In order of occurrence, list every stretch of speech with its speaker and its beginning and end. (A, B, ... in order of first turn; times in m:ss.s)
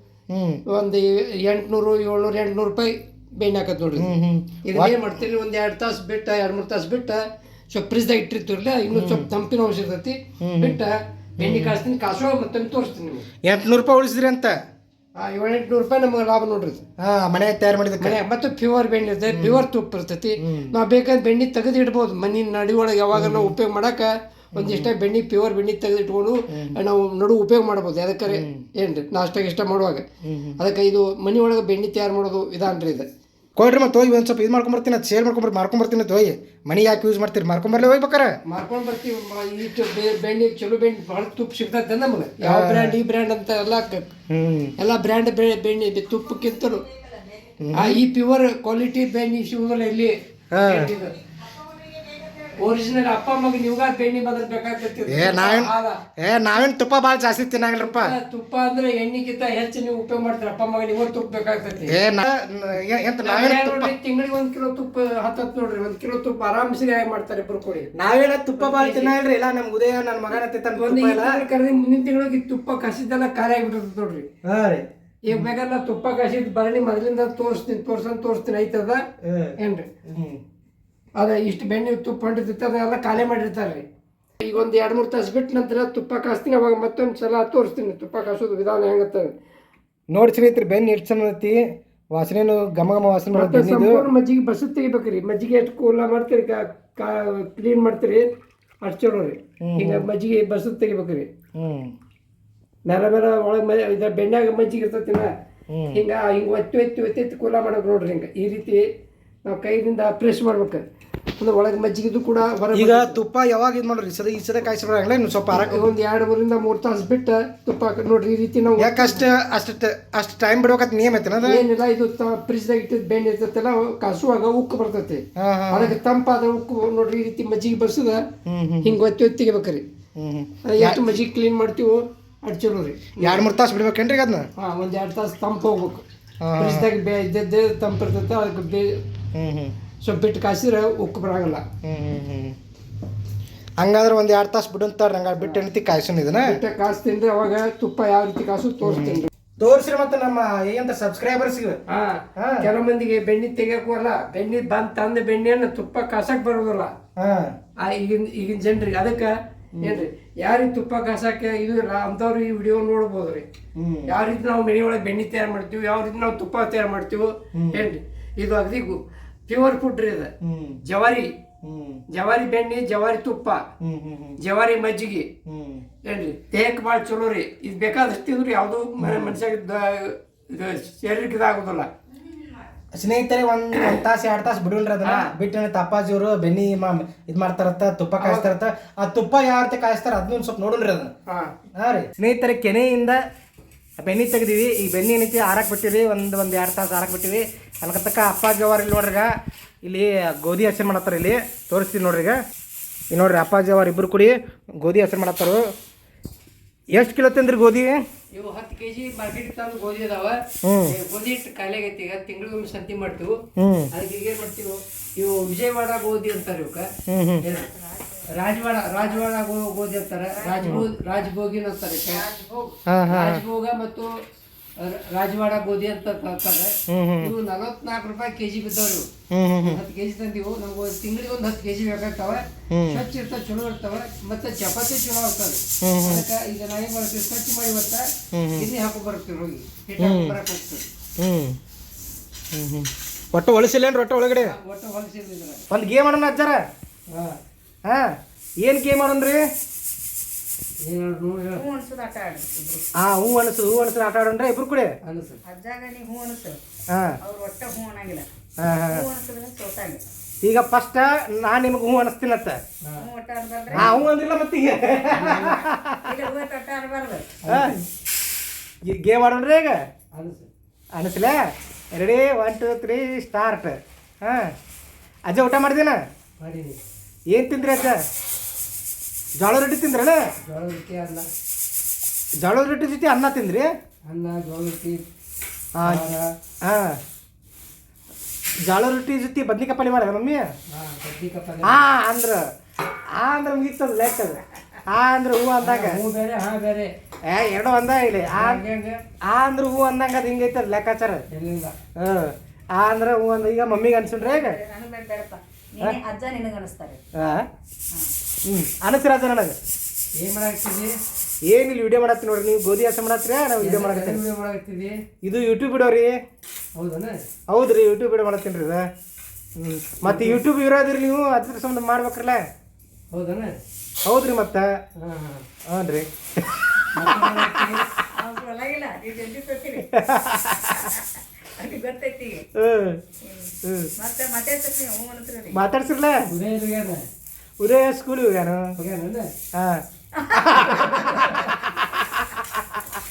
0:00.3-0:00.6 A
0:00.7-0:04.1 B
0:04.0-0:05.0 A
0:04.6-0:13.3 B
0:08.9-0:09.3 A
0:10.4-0:10.8 A
0:11.4-0:11.8 A
0:13.4-0:14.5 A
0:15.2-0:16.8 B
0:17.0-0:18.2 A
0:18.0-0:30.1 B
0:19.3-0:19.6 A
0:20.4-0:20.7 A
0:23.2-0:23.5 A
0:24.6-0:24.9 A
0:26.5-0:26.8 A
0:28.3-0:28.7 A
0:30.2-0:30.6 A
0:30.6-0:33.1 B
0:33.6-0:38.3 A
0:38.5-0:44.1 B
0:42.4-0:43.0 A
0:44.3-0:44.7 A
0:44.8-0:46.8 B
0:47.6-0:48.0 A
0:47.7-0:51.2 B
0:50.5-0:50.9 A
0:52.0-0:52.4 C
0:52.6-0:56.0 B
0:55.1-0:58.1 A
0:57.8-1:02.0 B
1:01.9-1:03.9 A
1:03.2-1:07.9 B
1:08.0-1:11.4 A
1:08.6-1:09.2 B
1:10.8-1:14.3 B
1:14.4-1:15.5 A
1:15.2-1:19.0 B
1:19.2-1:19.6 A
1:19.6-1:20.1 B
1:20.1-1:20.4 A
1:21.2-1:23.8 B
1:24.4-1:29.3 B
1:30.1-1:31.6 A
1:32.1-1:34.0 A
1:33.3-1:38.3 B
1:38.8-1:41.3 B
1:39.6-1:40.0 A
1:41.6-1:41.9 A
1:42.9-1:45.3 B
1:45.7-1:46.0 A
1:45.9-1:48.8 B
1:49.5-1:50.8 B
1:51.4-1:53.2 B
1:52.7-1:55.8 A
1:55.5-1:59.2 B
1:58.8-2:01.6 A
2:01.4-2:08.2 B
2:05.4-2:06.0 A
2:08.5-2:09.0 A
2:08.8-2:09.8 B
2:10.2-2:11.2 A
2:10.6-2:13.5 B
2:13.2-2:14.5 A
2:14.6-2:16.0 B
2:16.4-2:16.9 A
2:16.6-2:19.0 B
2:19.3-2:19.8 A
2:20.0-2:21.6 B
2:21.8-2:22.6 A
2:23.8-2:26.6 A
2:26.4-2:29.3 B
2:28.8-2:31.8 A
2:31.9-2:36.9 B
2:32.4-2:32.7 A
2:37.2-2:37.5 A
2:37.8-2:43.5 B
2:39.8-2:40.1 A
2:43.8-2:44.1 A
2:44.1-2:50.3 B
2:47.6-2:47.8 A
2:50.4-2:50.8 A
2:50.9-2:51.3 B
2:51.6-2:52.0 A
2:52.1-2:53.6 B
2:53.8-2:54.4 A
2:54.4-2:55.3 B
2:55.5-2:55.8 A
2:56.0-3:01.9 B
2:59.0-2:59.4 A
3:02.9-3:11.1 A
3:05.0-3:05.3 B
3:08.2-3:08.5 B
3:11.3-3:11.5 B
3:11.8-3:13.2 A
3:14.0-3:19.3 A
3:19.8-3:22.4 A
3:23.1-3:25.6 A
3:26.9-3:28.0 A
3:28.3-3:33.4 B
3:30.6-3:31.0 A
3:33.6-3:33.9 A
3:33.9-3:36.9 B
3:37.1-3:37.4 A
3:37.4-3:37.7 B
3:37.5-3:39.3 C
3:38.3-3:42.2 B
3:40.3-3:40.9 C
3:42.1-3:42.8 C
3:42.9-3:43.4 A
3:43.1-3:44.1 B
3:44.8-3:49.0 B
3:46.9-3:47.3 A
3:49.3-3:49.8 A
3:49.6-3:58.1 B
3:52.7-3:53.0 A
3:55.8-3:56.2 A
3:58.3-3:58.7 A
3:58.6-4:00.8 B
4:00.0-4:00.4 A
4:01.2-4:01.6 A
4:02.5-4:04.5 A
4:04.4-4:05.7 B
4:05.7-4:06.6 A
4:07.1-4:07.4 B
4:08.6-4:09.4 A
4:10.8-4:11.6 B
4:11.6-4:12.9 C
4:13.0-4:14.9 A
4:15.0-4:15.4 B
4:15.5-4:16.6 C
4:17.2-4:18.3 C
4:18.6-4:19.0 A
4:18.9-4:20.0 C
4:20.4-4:22.6 A
4:23.0-4:24.1 C
4:23.7-4:24.1 B
4:23.8-4:26.0 A
4:25.1-4:25.6 B
4:25.2-4:27.4 C
4:27.4-4:27.8 B
4:28.9-4:29.8 A
4:30.1-4:30.5 B
4:31.0-4:31.4 A
4:31.9-4:34.5 A
4:35.3-4:36.0 A
4:36.4-4:36.8 B
4:37.3-4:38.0 A
4:39.4-4:40.2 A
4:40.4-4:41.3 B
4:42.4-4:43.7 A
4:44.1-4:45.0 B
4:45.8-4:46.1 A
4:45.8-4:46.3 B
4:46.6-4:47.0 A
4:48.7-4:50.5 A
4:50.7-4:51.8 B
4:51.6-4:52.4 A
4:53.2-4:56.0 A
4:55.6-4:56.9 B
4:57.3-4:58.6 A
4:58.3-4:59.0 B
4:59.3-5:01.2 A
5:01.3-5:01.8 B
5:02.0-5:04.6 A
5:04.2-5:07.1 C
5:07.2-5:07.4 A
5:08.5-5:09.6 A
5:10.2-5:10.9 B
5:11.4-5:14.2 A
5:13.6-5:15.0 B
5:15.2-5:16.2 A
5:16.8-5:17.2 B
5:17.5-5:18.9 A
5:19.6-5:22.4 A
5:20.0-5:20.4 B
5:23.1-5:23.6 B
5:24.0-5:24.7 A
5:25.0-5:25.4 B
5:25.7-5:27.7 A
5:26.9-5:27.8 B
5:28.1-5:30.0 C
5:30.0-5:30.8 A
5:30.6-5:32.5 C
5:32.6-5:33.0 A
5:33.2-5:35.6 C
5:33.6-5:33.9 A
5:35.5-5:36.2 A
5:36.3-5:37.0 B
5:37.6-5:38.7 A
5:38.8-5:39.3 B
5:39.6-5:39.8 A
5:40.2-5:41.8 C
5:40.4-5:43.0 A